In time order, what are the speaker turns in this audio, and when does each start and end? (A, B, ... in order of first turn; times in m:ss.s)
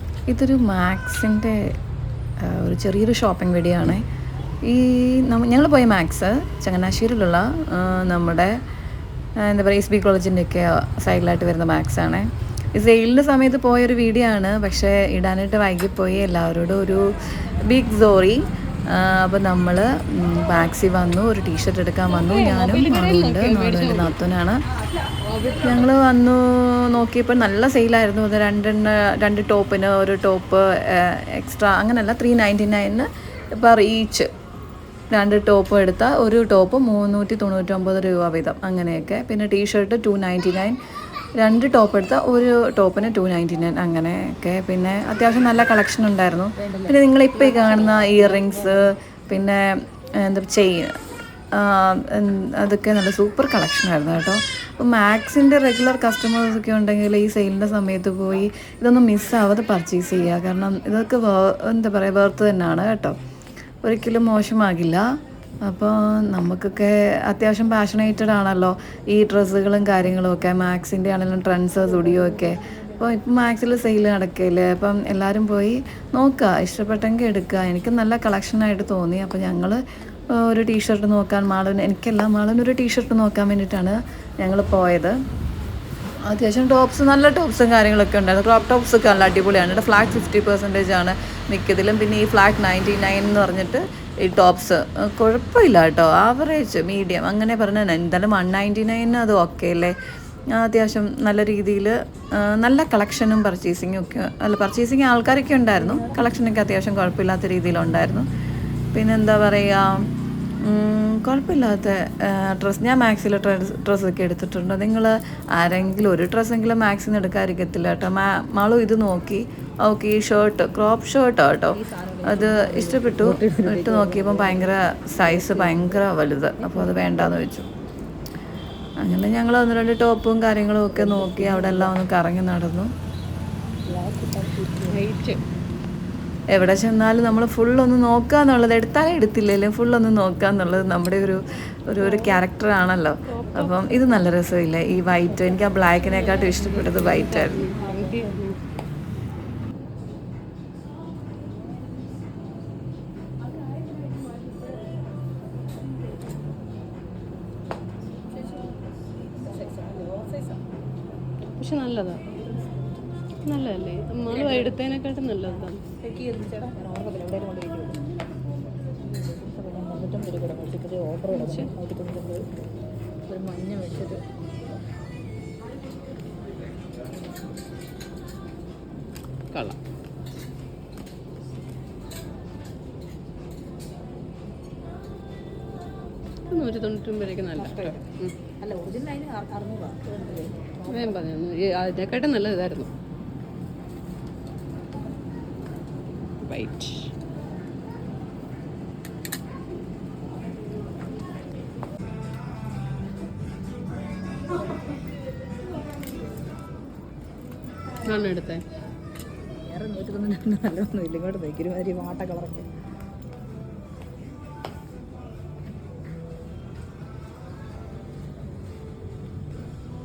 0:00.3-0:01.7 A
0:02.4-0:04.0 A
0:04.6-0:08.5 A
0:09.4-0:17.1 A
0:17.6-0:24.6 A
0:22.1-0:24.2 B
0:25.2-0:25.7 B
0:25.6-0:34.3 A
0:35.1-0:40.8 A
0:41.4-0:49.6 A
0:46.6-0:48.8 C
0:50.2-0:50.9 A
0:51.5-1:03.2 A
1:03.8-1:05.1 A
1:05.6-1:25.1 A
1:12.1-1:12.9 C
1:26.3-1:39.9 A
1:29.4-1:30.0 C
1:40.5-1:48.2 A
1:45.7-1:46.3 C
1:48.9-1:50.1 A
1:50.6-2:07.7 A
2:01.7-2:06.0 C
2:06.6-2:07.4 C
2:09.0-2:12.9 A
2:10.9-2:12.0 C
2:13.8-2:15.0 C
2:14.9-2:15.4 B
2:16.5-2:27.7 A
2:22.0-2:22.4 B
2:23.3-2:24.0 B
2:26.0-2:28.6 B
2:27.8-2:28.3 C
2:39.4-2:40.6 C
2:41.6-2:42.4 B
2:43.4-2:45.8 B
2:44.3-2:44.7 C
2:46.0-2:48.0 C
2:49.1-2:52.4 C
2:51.3-2:51.7 B
2:53.3-2:54.2 C
2:59.5-2:59.8 B
3:06.5-3:08.3 B
3:07.5-3:08.0 C
3:08.6-3:11.2 C
3:10.9-3:12.9 B
3:16.4-3:17.1 B
3:28.0-3:28.6 B
3:29.6-3:32.7 C